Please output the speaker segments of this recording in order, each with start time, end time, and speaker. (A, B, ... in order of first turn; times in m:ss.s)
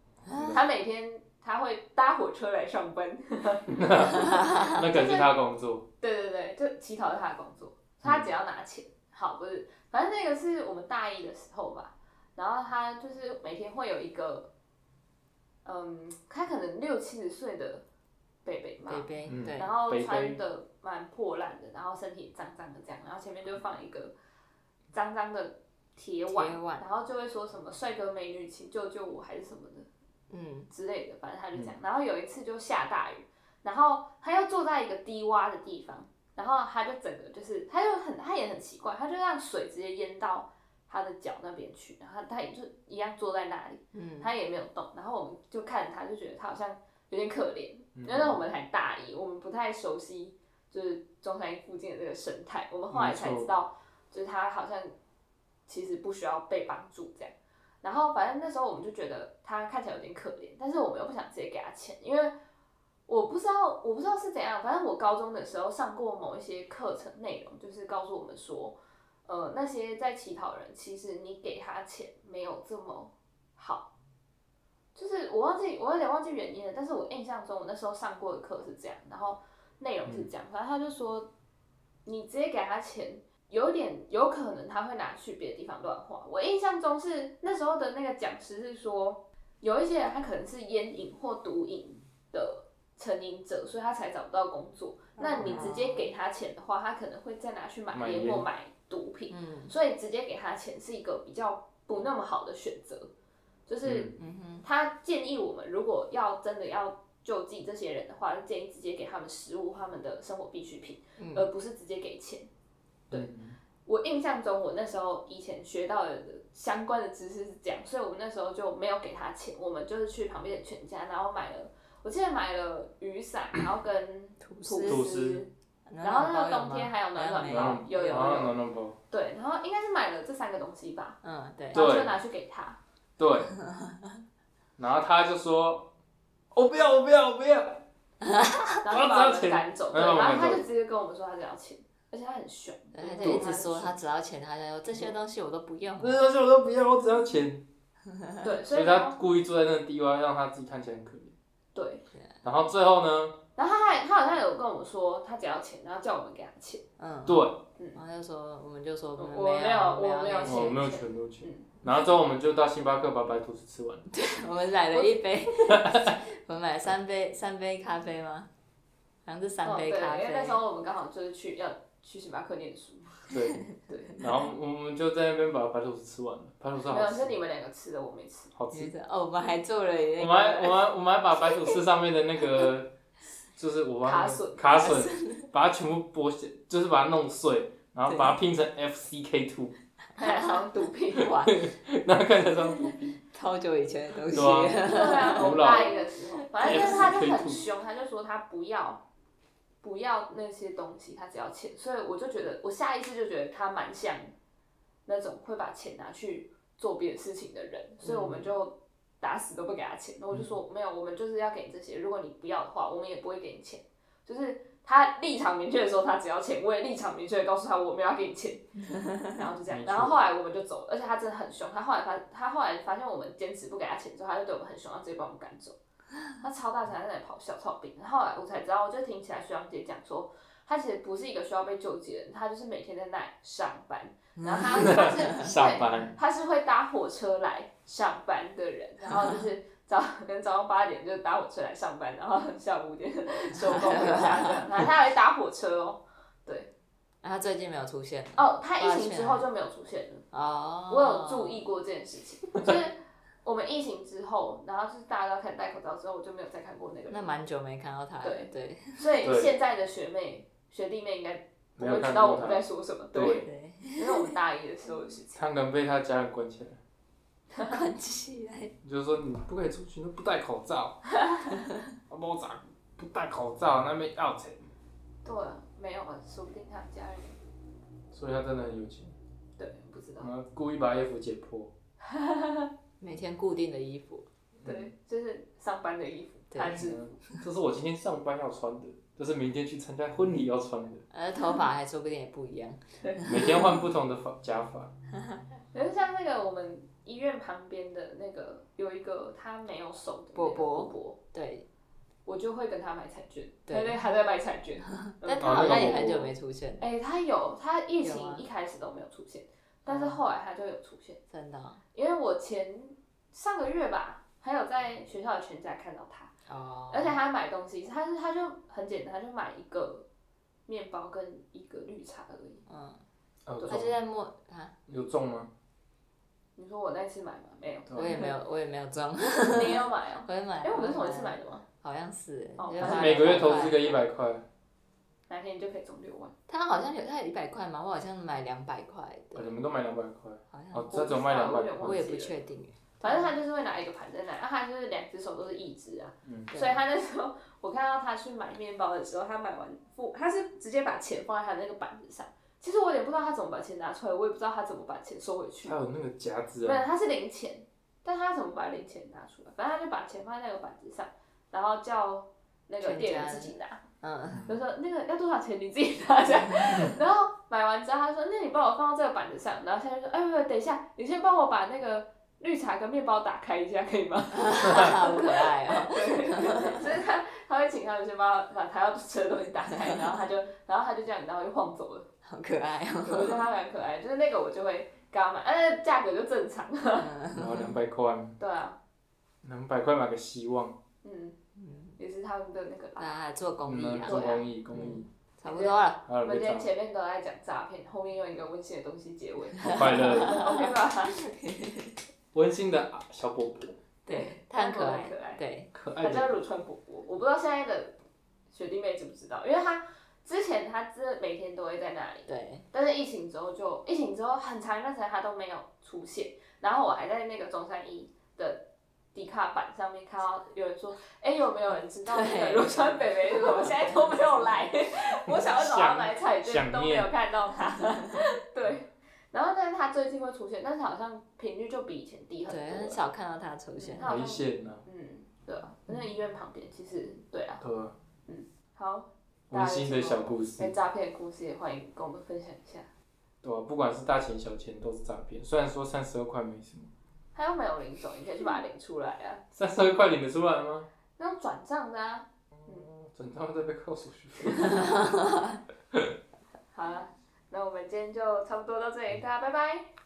0:00.2-0:00.6 A
0:00.3-0:00.6 B
0:00.5-0:05.3 C
0:03.7-0:05.9 B
0:04.4-0:04.7 A
0:06.0-0:14.5 C
0:15.6-0:17.8 C
0:18.4-0:24.1 C
0:18.9-0:19.7 A
0:19.3-0:20.4 B
0:24.9-0:29.9 C
0:26.3-0:26.8 A
0:30.3-0:30.7 A
0:30.7-0:54.9 C
0:43.9-0:44.3 A
0:48.0-0:48.4 B
0:52.9-0:53.5 B
0:55.7-1:02.3 C
1:03.1-1:13.9 C
1:14.9-1:21.3 C
1:22.0-1:43.1 C
1:35.2-1:36.1 A
1:35.4-1:35.7 B
1:37.9-1:38.4 B
1:39.3-1:39.7 A
1:43.7-1:44.1 C
1:43.8-1:44.2 B
1:44.2-1:44.6 A
1:44.6-1:52.5 C
1:51.2-1:51.5 A
1:53.1-1:53.6 B
1:53.8-2:05.5 C
2:04.4-2:05.1 A
2:04.8-2:05.4 B
2:05.9-2:08.4 A
2:06.0-2:08.5 C
2:07.5-2:09.0 B
2:09.1-2:11.2 C
2:11.2-2:11.8 A
2:11.7-2:12.8 C
2:11.7-2:12.2 B
2:13.2-2:13.5 B
2:13.6-2:14.2 A
2:14.8-2:15.9 B
2:16.5-2:17.8 B
2:18.2-2:18.8 A
2:18.8-2:23.9 C
2:18.9-2:20.6 B
2:22.9-2:26.2 A
2:23.2-2:23.5 B
2:26.0-2:27.7 B
2:28.1-2:28.5 A
2:28.4-2:29.2 C
2:28.7-2:31.3 B
2:31.7-2:32.0 C
2:32.4-2:33.4 B
2:33.6-2:36.8 C
2:37.0-2:37.4 A
2:37.2-2:37.6 B
2:37.9-2:40.8 A
2:39.2-2:41.8 C
2:40.4-2:44.0 B
2:44.1-2:48.5 A
2:44.9-2:45.2 C
2:45.7-2:46.2 B
2:49.2-2:50.6 A
2:49.6-2:53.3 C
2:53.3-2:57.3 B
2:53.8-2:54.2 C
2:56.9-2:58.5 C
2:58.5-2:58.9 B
2:58.7-3:00.9 A
3:00.2-3:03.0 B
3:03.6-3:09.8 B
3:04.0-3:05.2 C
3:04.8-3:05.4 A
3:08.1-3:08.3 A
3:10.2-3:10.6 A
3:10.2-3:11.4 C
3:11.2-3:13.2 B
3:11.2-3:11.5 A
3:13.3-3:17.2 A
3:14.3-3:15.9 B
3:14.7-3:19.0 C
3:16.6-3:17.7 B
3:19.8-3:24.3 C
3:25.0-3:45.8 C
3:28.0-3:28.5 A
3:38.8-3:39.3 A
3:39.7-3:40.2 B
3:46.4-4:06.7 C
3:54.4-3:55.4 A
3:54.7-3:56.1 B
4:03.6-4:04.6 A
4:07.2-4:09.4 A
4:08.4-4:10.2 C
4:10.3-4:11.6 A
4:10.9-4:17.4 C
4:17.1-4:19.2 A
4:18.2-4:25.4 C
4:19.2-4:19.5 B
4:21.8-4:23.5 B
4:23.2-4:24.4 A
4:25.3-4:26.8 B
4:27.5-4:27.8 C
4:27.7-4:28.7 A
4:28.8-4:31.0 B
4:31.5-4:31.8 A
4:32.1-4:34.7 B
4:35.2-4:37.4 C
4:38.1-4:39.1 B
4:39.6-4:40.3 C
4:40.2-4:41.7 B
4:42.0-4:42.7 C
4:43.0-4:44.2 A
4:44.6-4:44.9 B
4:44.6-4:47.1 C
4:46.5-4:46.8 A
4:46.7-4:51.0 B
4:51.1-4:53.6 A
4:53.0-4:53.4 C
4:53.2-4:54.9 B
4:55.7-5:01.2 C
5:00.3-5:01.6 A
5:02.2-5:06.0 C
5:03.7-5:04.0 A
5:05.0-5:06.8 A
5:05.4-5:06.3 B
5:06.8-5:11.2 C
5:08.0-5:08.5 A
5:09.8-5:10.2 A
5:11.3-5:11.8 A
5:11.9-5:16.3 C
5:16.5-5:17.2 A
5:16.9-5:20.0 C
5:20.7-5:22.6 C
5:22.6-5:23.0 A
5:23.5-5:24.0 B
5:23.7-5:24.7 A
5:24.9-5:25.5 B
5:26.6-5:28.3 C
5:27.9-5:28.2 B
5:28.0-5:33.9 A
5:29.4-5:31.6 C
5:32.6-5:33.7 C
5:32.8-5:34.4 B
5:35.3-5:36.3 C
5:36.5-5:39.5 A
5:39.3-5:42.0 B
5:40.5-5:40.9 A
5:40.9-5:42.3 C
5:41.8-5:43.3 A
5:43.0-5:55.8 C
5:46.2-5:46.5 B
5:46.5-5:46.8 A
5:55.6-5:56.8 B
5:56.6-6:03.8 C
6:02.8-6:04.4 A
6:04.3-6:04.6 B
6:04.5-6:22.1 C
6:14.3-6:17.0 A
6:19.7-6:20.2 A
6:22.2-6:23.4 A
6:23.0-6:27.1 C
6:27.0-6:27.8 A
6:27.3-6:28.4 B
6:28.4-6:28.8 C
6:29.4-6:30.8 B
6:31.0-6:31.4 C
6:31.6-6:32.0 A
6:32.0-6:33.1 C
6:33.0-6:36.0 A
6:33.6-6:35.1 B
6:34.0-6:34.5 C
6:35.4-6:41.2 C
6:36.1-6:36.7 B
6:39.6-6:42.0 A
6:39.6-6:40.4 B
6:42.3-6:43.8 B
6:44.0-6:45.7 A
6:44.1-6:45.4 C
6:45.7-6:46.3 B
6:46.0-6:48.0 C
6:48.5-7:13.0 C
6:52.3-6:52.6 A
7:02.0-7:04.5 A
7:05.0-7:07.1 B
7:12.5-7:14.1 A
7:13.8-7:17.6 C
7:14.0-7:14.8 B
7:17.6-7:17.9 B
7:18.3-7:22.9 C
7:19.5-7:20.7 B
7:23.4-7:26.9 B
7:27.3-7:29.4 C
7:29.5-7:30.9 B
7:31.2-7:32.9 C
7:32.9-7:35.0 B
7:34.6-7:35.6 A
7:36.7-7:39.8 C